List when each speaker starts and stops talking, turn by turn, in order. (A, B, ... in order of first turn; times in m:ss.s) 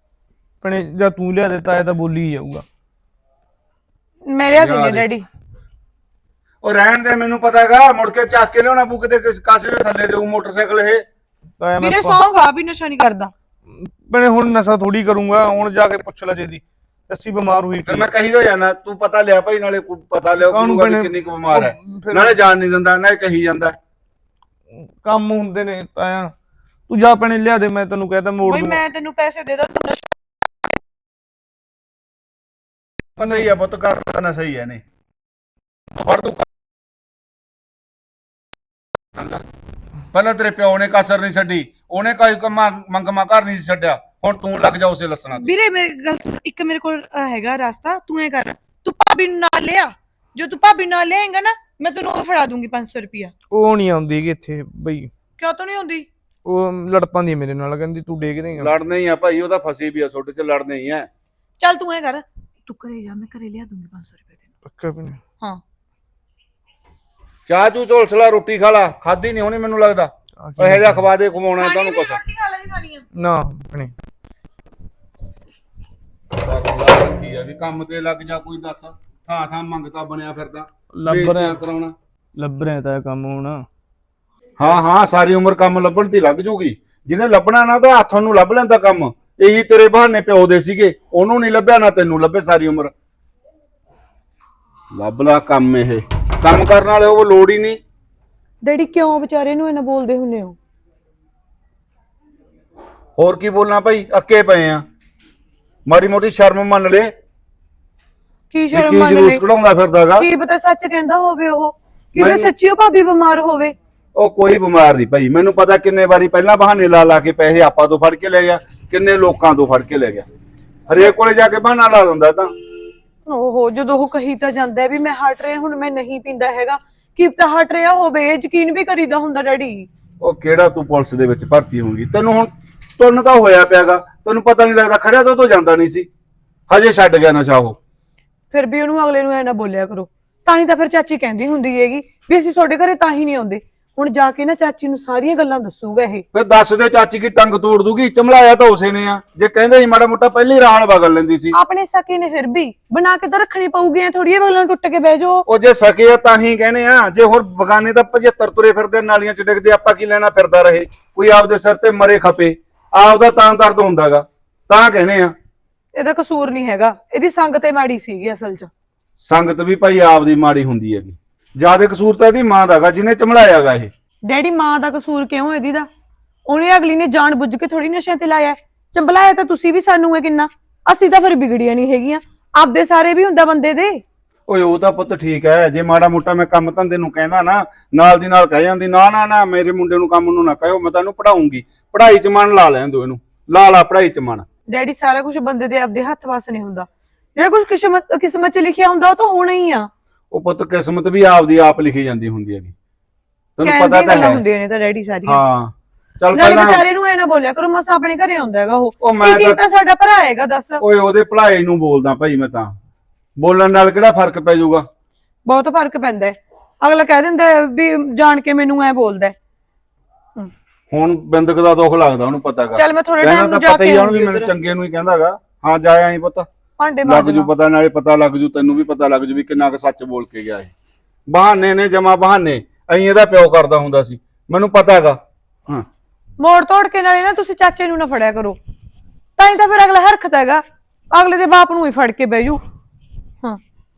0:00.6-0:02.6 A
0:04.3-0:05.2 B
0:04.6-0:05.1 C
0:06.6-0:11.0 C
0:11.6-0:12.2 A
0:11.8-0:13.3 B
0:13.8-0:18.1 A
0:17.8-0:23.8 C
0:20.4-0:22.3 A
0:24.8-0:26.3 A
0:26.9-0:28.8 A
0:28.4-0:30.1 B
0:33.2-0:34.8 C
0:35.9-0:36.5 C
0:39.1-0:39.4 C
0:40.1-0:45.5 C
0:45.4-0:53.3 B
0:53.5-0:55.1 A
0:55.4-0:56.1 B
0:56.4-0:58.7 A
0:58.6-1:01.1 C
1:01.6-1:04.4 B
1:04.6-1:05.2 A
1:07.5-1:12.2 C
1:10.4-1:11.0 A
1:11.5-1:13.1 B
1:13.1-1:13.9 A
1:16.4-1:21.9 C
1:20.9-1:21.6 A
1:22.4-1:23.6 A
1:24.6-1:32.9 C
1:34.9-1:37.8 C
1:38.6-1:40.6 B
1:43.2-1:44.8 C
1:45.9-1:47.1 C
1:48.5-1:49.4 B
1:48.7-1:50.3 C
1:50.2-1:53.7 B
1:52.2-1:52.5 C
1:54.1-2:00.2 C
2:00.9-2:02.5 C
2:03.3-2:09.9 B
2:10.2-2:16.1 C
2:16.7-2:17.8 C
2:18.5-2:26.2 B
2:26.3-2:31.5 C
2:31.5-2:35.4 B
2:35.4-2:45.3 C
2:45.9-2:48.7 B
2:49.2-2:53.9 C
2:54.2-2:55.9 B
2:56.5-3:04.0 B
3:04.5-3:14.4 C
3:14.7-3:19.9 B
3:20.3-3:22.7 C
3:23.6-3:24.4 C
3:23.6-3:25.4 B
3:25.2-3:26.8 C
3:26.3-3:30.8 B
3:29.0-3:29.6 C
3:30.8-3:32.8 C
3:33.4-3:34.8 C
3:35.5-3:39.3 B
3:40.9-3:46.5 C
3:42.8-3:44.5 B
3:46.8-3:47.5 B
3:47.0-3:50.7 C
3:51.3-3:55.8 C
3:56.4-3:58.6 B
3:59.4-4:02.6 B